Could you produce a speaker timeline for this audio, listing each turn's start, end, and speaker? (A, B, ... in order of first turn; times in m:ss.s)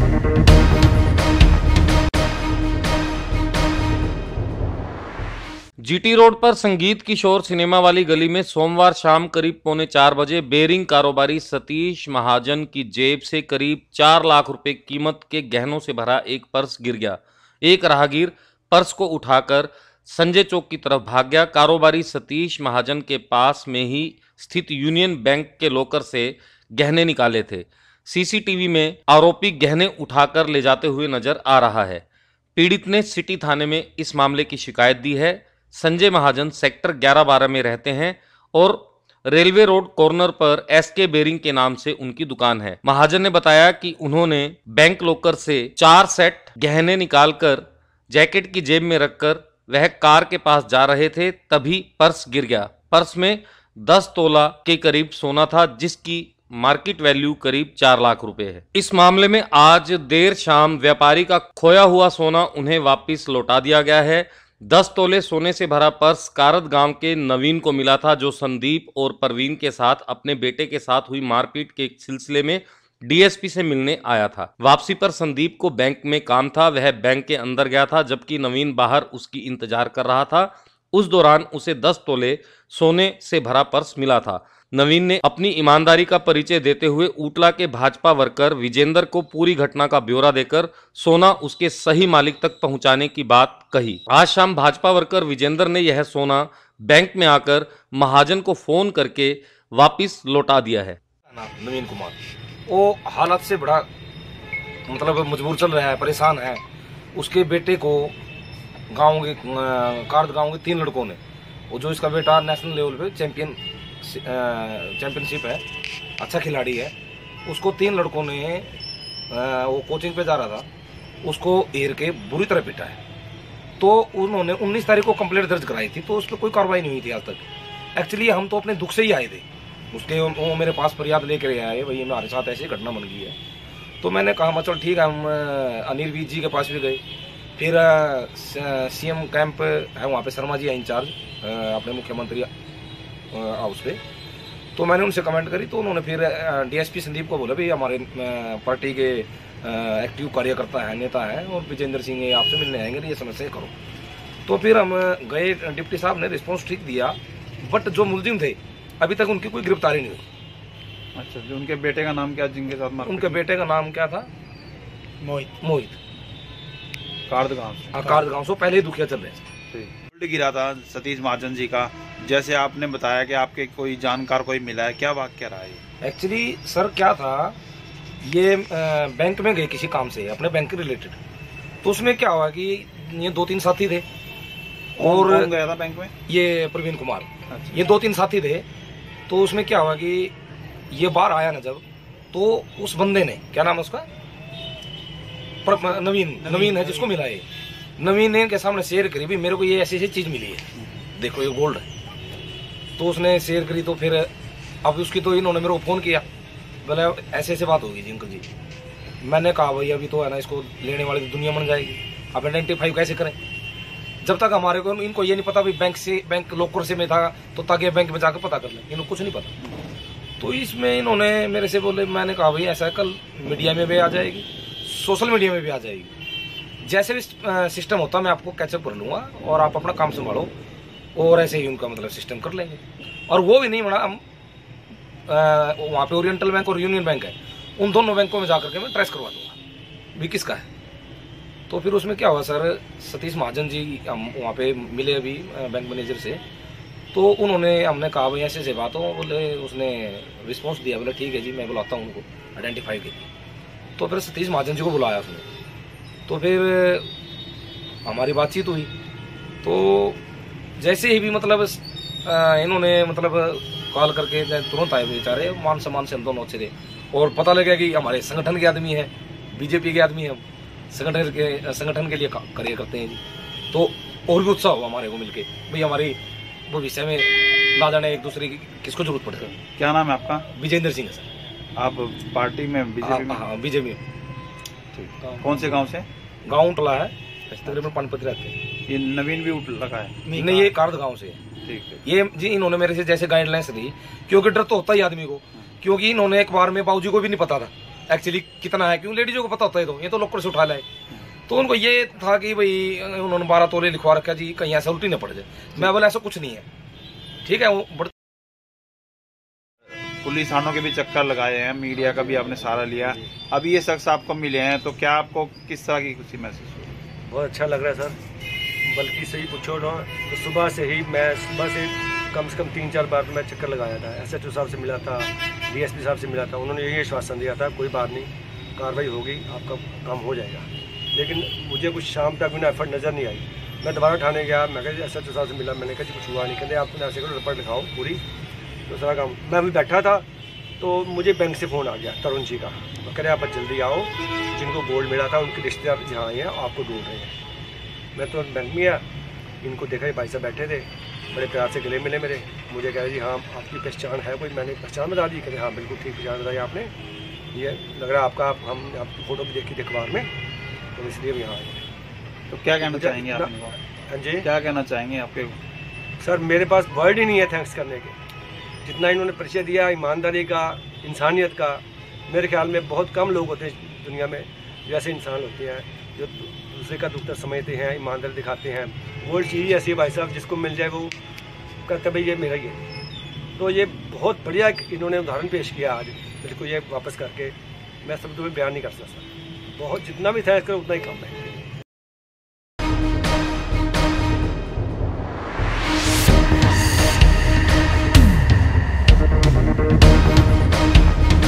0:05.8-0:32.0 A
0:32.6-1:41.0 A
1:41.3-1:42.2 B
1:42.7-1:43.9 B
1:44.9-1:46.6 B
1:47.2-1:48.2 B
1:48.9-1:51.2 B
1:51.7-1:55.6 B
1:56.2-1:56.9 B
1:57.5-1:58.7 B
1:59.3-2:00.7 B
2:01.2-2:03.0 B
2:03.8-2:07.4 B
2:08.0-2:13.4 B
2:14.0-2:17.0 B
2:17.6-2:22.5 B
2:23.3-2:24.0 B
2:24.8-2:33.7 B
2:34.5-2:40.2 B
2:41.2-2:43.4 C
2:43.0-2:44.3 B
2:45.3-2:46.0 B
2:47.3-2:48.3 C
2:47.9-2:49.4 B
2:49.7-2:55.8 C
2:56.0-2:57.6 B
2:58.2-3:01.2 B
3:01.8-3:04.0 B
3:05.0-3:05.5 B
3:05.0-3:06.1 C
3:06.3-3:08.6 B
3:07.5-3:08.0 C
3:09.3-3:10.3 B
3:10.9-3:14.1 B
3:15.6-3:17.4 B
3:16.4-3:17.2 C
3:18.0-3:20.6 B
3:21.2-3:21.8 B
3:23.0-3:24.3 B
3:24.8-3:26.2 B
3:26.8-3:28.5 B
3:29.2-3:33.4 B
3:34.2-3:39.5 B
3:40.4-3:46.1 B
3:46.8-3:50.5 B
3:51.2-3:54.2 B
3:55.3-3:59.6 B
4:00.2-4:00.6 B
4:01.7-4:06.4 B
4:07.1-4:13.3 B
4:14.0-4:15.4 B
4:16.3-4:17.1 B
4:18.1-4:18.9 B
4:19.6-4:20.2 B
4:20.8-4:33.2 B
4:33.7-4:36.2 B
4:36.7-4:39.5 B
4:39.4-4:40.5 C
4:40.6-4:41.2 B
4:41.8-4:43.5 C
4:43.0-4:44.0 B
4:44.9-4:46.0 C
4:45.2-4:45.5 B
4:46.5-4:47.1 B
4:47.5-4:47.9 C
4:47.6-4:48.5 B
4:48.9-4:50.8 C
4:50.3-4:51.4 B
4:51.6-4:52.0 C
4:52.0-5:00.8 B
5:01.5-5:06.7 B
5:07.4-5:08.1 B
5:10.2-5:17.0 C
5:17.3-5:18.2 D
5:18.8-5:38.2 D
5:38.9-5:40.2 D
5:40.8-5:47.3 D
5:48.2-5:49.0 D
5:49.6-5:56.9 D
5:57.5-6:00.3 D
6:01.0-6:01.8 D
6:02.5-6:03.7 C
6:02.8-6:03.5 D
6:04.1-6:04.5 D
6:04.4-6:05.6 C
6:06.2-6:08.1 D
6:08.8-6:21.2 D
6:21.9-6:22.8 D
6:23.6-6:31.6 D